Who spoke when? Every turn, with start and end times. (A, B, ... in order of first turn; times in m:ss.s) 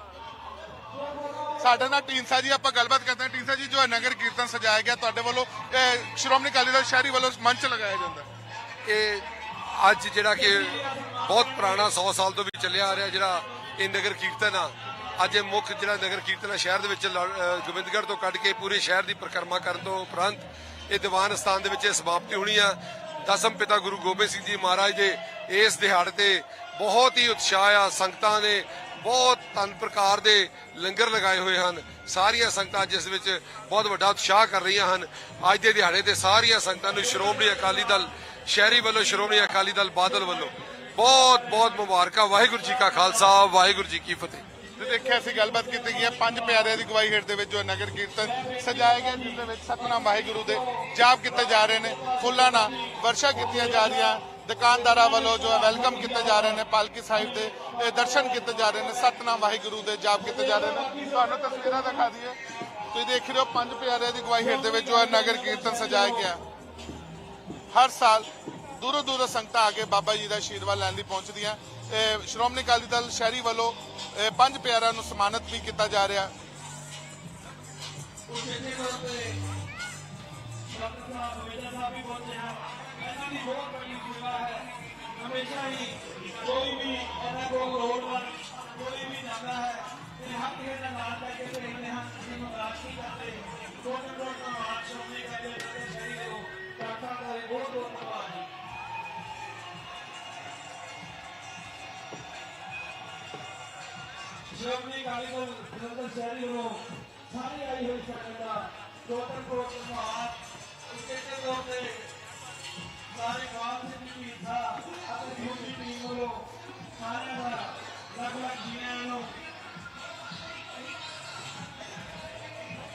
0:00.9-0:01.9 A
0:01.6-0:08.3 B
0:08.8-0:44.4 C
0:10.3-0:12.0 A
0:39.0-0:39.5 A
0:40.0-0:43.5 A
0:44.6-0:46.8 A
0:44.8-1:02.4 B
0:48.2-0:59.0 A
1:00.2-1:02.1 A
1:02.9-1:06.4 B
1:04.4-1:06.3 A
1:07.7-1:16.3 B
1:18.3-1:19.4 A
1:20.7-1:38.5 A
1:44.5-1:52.1 A
1:53.1-1:59.3 A